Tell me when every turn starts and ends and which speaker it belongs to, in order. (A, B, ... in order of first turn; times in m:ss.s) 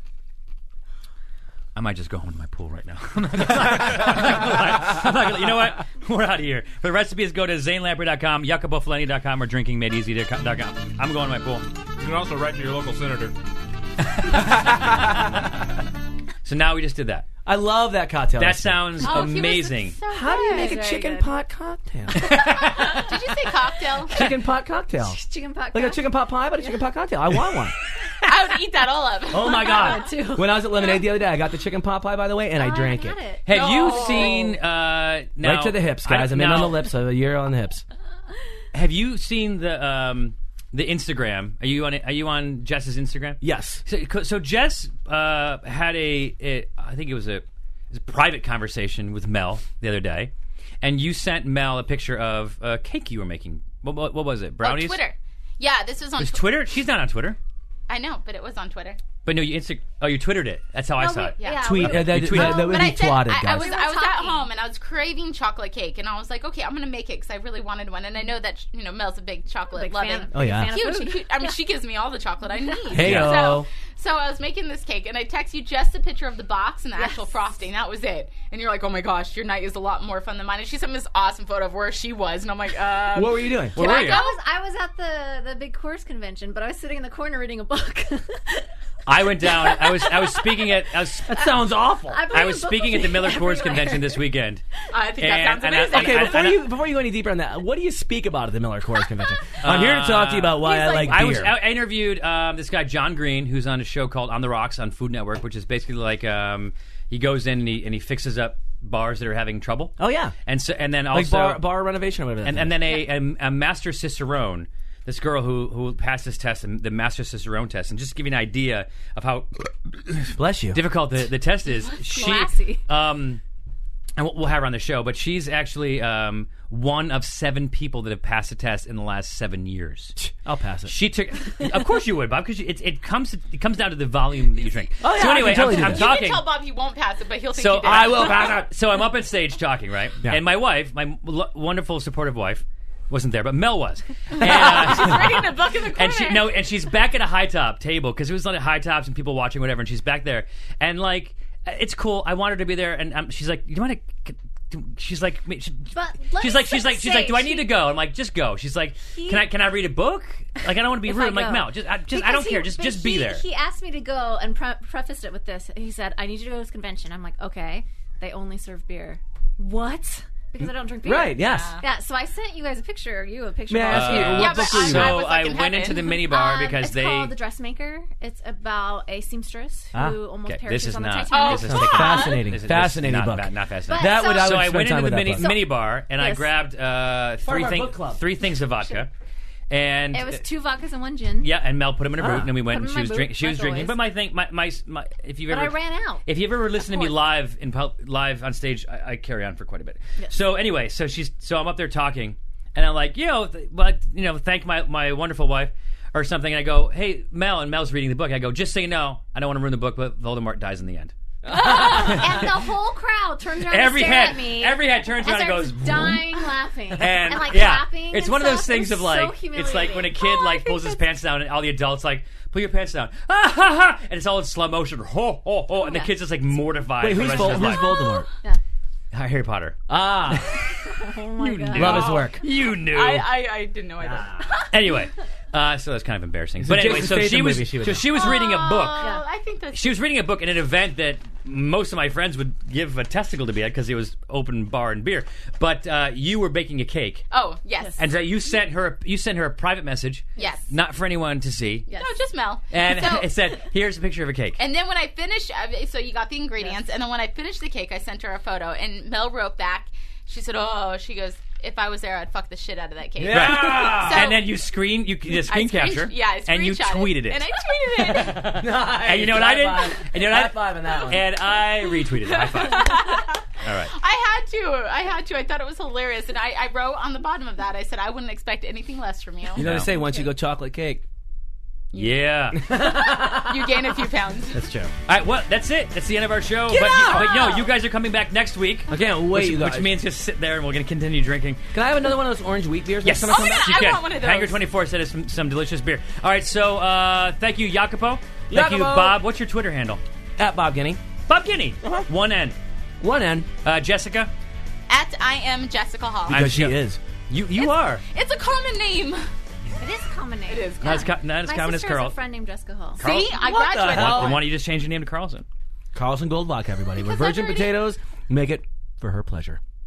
0:01.7-0:11.6 A
0:12.0-0:13.4 B
0:14.2-0:15.4 B
0:16.4-0:17.2 A
0:17.4-0:19.3 C
0:18.4-0:20.0 A
0:19.0-0:21.3 D
0:20.1-0:22.8 C
0:22.8-0:24.2 E
0:22.8-0:23.1 D
0:24.1-0:27.8 C
0:25.0-0:26.0 D
0:28.2-0:29.7 E
0:29.3-0:33.2 C
0:29.4-0:31.0 D
0:32.6-0:33.5 D
0:33.4-0:36.9 A
0:33.5-0:34.5 E
0:33.9-0:34.4 C
0:35.4-0:37.8 C
0:38.7-0:55.0 A
0:43.4-0:43.8 C
0:54.6-0:56.5 E
0:56.2-0:57.4 A
0:57.9-0:59.0 E
0:59.2-1:02.7 A
1:01.0-1:04.5 D
1:01.4-1:24.4 E
1:01.6-1:03.8 C
1:09.7-1:11.6 D
1:10.3-1:10.8 C
1:12.5-1:13.2 D
1:12.9-1:13.7 C
1:13.0-1:13.4 A
1:16.9-1:17.6 D
1:23.1-1:24.2 C
1:23.8-1:28.7 D
1:23.8-1:24.2 A
1:29.0-1:34.6 A
1:29.4-1:31.5 D
1:31.8-1:32.2 C
1:32.1-1:34.2 D
1:34.9-1:36.5 E
1:35.2-1:36.7 A
1:35.9-1:41.6 C
1:39.6-1:51.6 A
1:50.0-1:50.3 C
1:51.1-1:52.9 C
1:52.4-2:03.4 A
2:00.3-2:00.8 C
2:02.0-2:02.8 D
2:04.2-2:10.2 A
2:10.2-2:11.0 C
2:10.8-2:16.5 A
2:15.0-2:16.1 C
2:15.2-2:18.4 E
2:17.6-2:43.4 A
2:17.8-2:18.7 C
2:24.3-2:26.6 E
2:35.9-2:37.7 D
2:39.1-2:39.5 D
2:41.1-2:55.0 D
2:50.6-2:51.7 C
2:51.4-2:51.8 E
2:53.7-2:55.2 C
2:53.9-2:57.3 A
2:54.3-2:56.2 E
2:55.9-3:02.4 D
2:59.9-3:00.2 C
3:00.4-3:09.1 A
3:01.3-3:02.3 E
3:01.5-3:05.6 C
3:03.9-3:04.6 D
3:05.4-3:06.5 D
3:07.4-3:08.2 C
3:09.7-3:10.4 A
3:10.1-3:11.5 D
3:11.4-3:32.7 A
3:12.2-3:12.5 C
3:12.6-3:14.0 D
3:15.5-3:17.2 D
3:31.4-3:32.4 C
3:31.5-3:41.0 D
3:33.6-3:47.9 A
3:45.7-3:46.2 D
3:47.0-3:48.3 C
3:47.2-3:48.6 D
3:49.1-3:53.3 A
3:49.9-3:50.6 C
3:50.8-3:52.1 D
3:51.7-3:52.4 C
3:51.8-3:54.6 E
3:54.0-3:54.5 C
3:54.7-3:59.1 A
3:56.6-3:58.1 C
3:58.2-3:59.2 D
3:58.2-4:00.0 E
3:59.7-4:07.2 A
4:07.3-4:08.0 E
4:08.0-4:11.9 A
4:10.4-4:10.6 D
4:10.4-4:10.7 E
4:11.9-4:13.2 E
4:12.7-4:14.6 A
4:12.9-4:13.2 D
4:14.6-4:24.4 E
4:23.2-4:24.3 C
4:23.3-4:27.4 A
4:25.4-4:28.5 E
4:28.1-4:33.9 A
4:28.4-4:31.3 C
4:32.3-4:33.4 E
4:33.9-4:39.6 E
4:39.6-4:41.0 C
4:39.6-4:39.9 A
4:41.9-4:42.2 E
4:41.9-4:43.5 A
4:42.7-4:44.6 E
4:44.5-4:44.9 C
4:45.0-4:51.6 A
4:46.7-4:47.7 C
4:48.9-4:49.9 C
4:51.7-4:53.9 C
4:53.0-5:00.0 A
4:53.3-4:54.6 E
4:58.5-4:59.2 C
5:00.4-5:01.0 C
5:01.3-5:02.6 A
5:03.0-5:03.5 C
5:03.6-5:04.3 A
5:04.9-5:06.4 E
5:06.3-5:06.8 A
5:06.3-5:07.0 C
5:07.3-5:08.0 A
5:07.6-5:09.3 E
5:09.8-5:13.0 D
5:10.5-5:11.1 E
5:10.8-5:12.2 A
5:13.0-5:14.4 E
5:13.0-5:15.4 A
5:13.3-5:14.4 C
5:15.9-5:19.6 C
5:17.0-5:17.7 D